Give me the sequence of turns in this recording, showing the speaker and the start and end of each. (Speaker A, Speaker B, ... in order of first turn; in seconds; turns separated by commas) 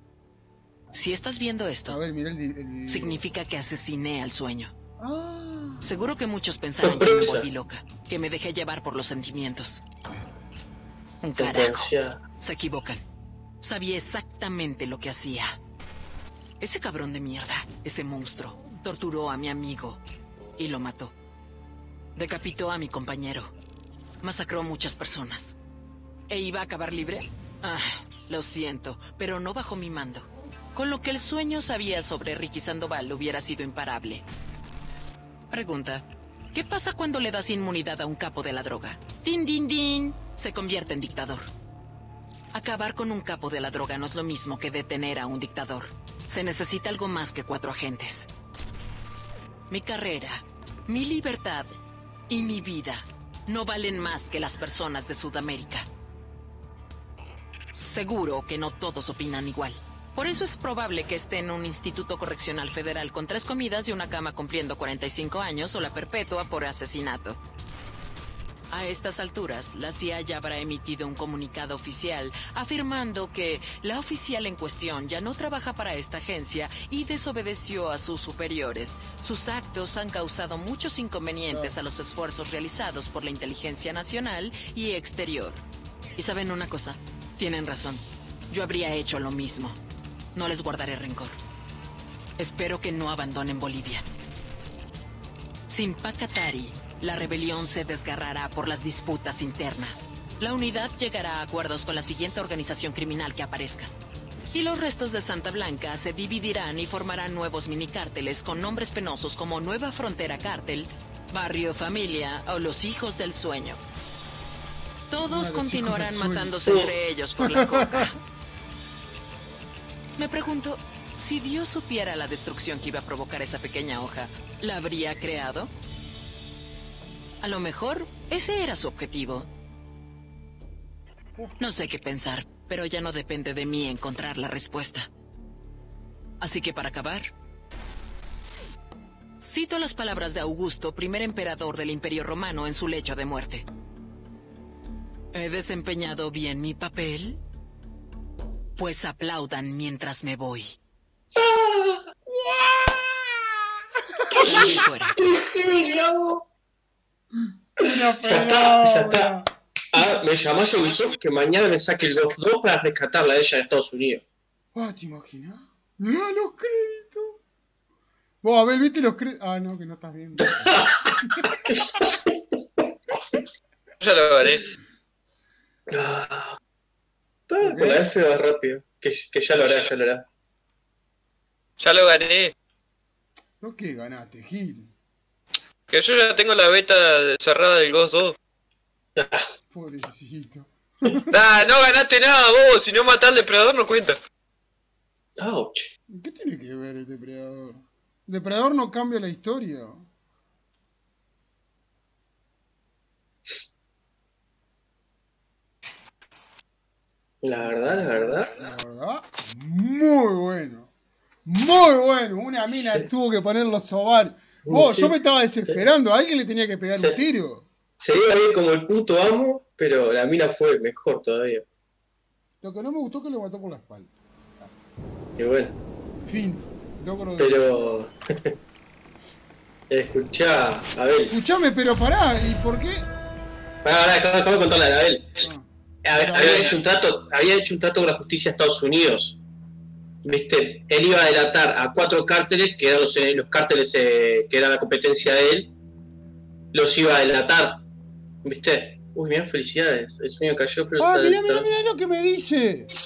Speaker A: 0.9-2.0, Speaker B: 1.9-3.3, Speaker A: 2.9-4.7, Speaker B: 5.0-6.1, Speaker A: 5.8-9.8, Speaker C: 6.8-7.5, Speaker A: 11.2-13.0, Speaker C: 11.4-12.2, Speaker A: 13.6-15.6, Speaker A: 16.6-20.0, Speaker A: 20.6-21.1, Speaker A: 22.1-23.5, Speaker A: 24.2-25.6, Speaker A: 26.3-34.2, Speaker A: 35.5-41.5, Speaker A: 42.5-48.3, Speaker A: 49.7-51.7, Speaker A: 52.3-55.9, Speaker A: 57.7-67.4, Speaker A: 68.7-85.6, Speaker B: 81.5-81.8, Speaker A: 86.2-89.8, Speaker A: 90.3-91.4, Speaker A: 92.4-94.0, Speaker A: 95.7-103.9, Speaker A: 104.5-113.8, Speaker A: 115.1-118.2, Speaker B: 115.2-116.6, Speaker C: 116.7-116.9, Speaker B: 117.4-118.1, Speaker A: 120.2-125.7, Speaker A: 127.4-129.5, Speaker A: 131.6-135.1, Speaker A: 136.4-137.3, Speaker A: 139.4-143.7, Speaker A: 145.3-147.4, Speaker A: 148.8-150.7, Speaker C: 151.3-152.0, Speaker B: 152.3-154.8, Speaker C: 154.3-156.4, Speaker A: 154.4-155.2, Speaker B: 157.3-159.5, Speaker C: 157.8-159.3, Speaker C: 159.9-164.2, Speaker B: 164.7-167.4, Speaker B: 168.4-171.7, Speaker C: 170.4-173.4, Speaker D: 174.0-174.6, Speaker C: 175.9-176.6, Speaker C: 177.5-180.2, Speaker B: 177.6-178.1, Speaker D: 181.8-182.5, Speaker B: 183.6-184.9, Speaker D: 185.9-188.3, Speaker C: 189.2-189.5, Speaker B: 189.7-191.4, Speaker D: 191.3-194.2, Speaker C: 195.4-195.9, Speaker B: 196.1-200.1, Speaker C: 207.4-208.5, Speaker B: 207.6-210.9, Speaker B: 211.4-217.7, Speaker C: 214.7-215.1, Speaker C: 218.0-221.6, Speaker B: 222.6-224.1, Speaker C: 225.4-225.8, Speaker B: 226.2-228.1, Speaker C: 227.4-228.5, Speaker C: 229.9-231.3, Speaker B: 231.3-233.1, Speaker C: 233.8-235.3, Speaker B: 235.4-236.8, Speaker C: 236.0-239.4, Speaker C: 240.2-245.7, Speaker C: 246.7-247.8, Speaker C: 248.4-251.7, Speaker B: 251.0-252.9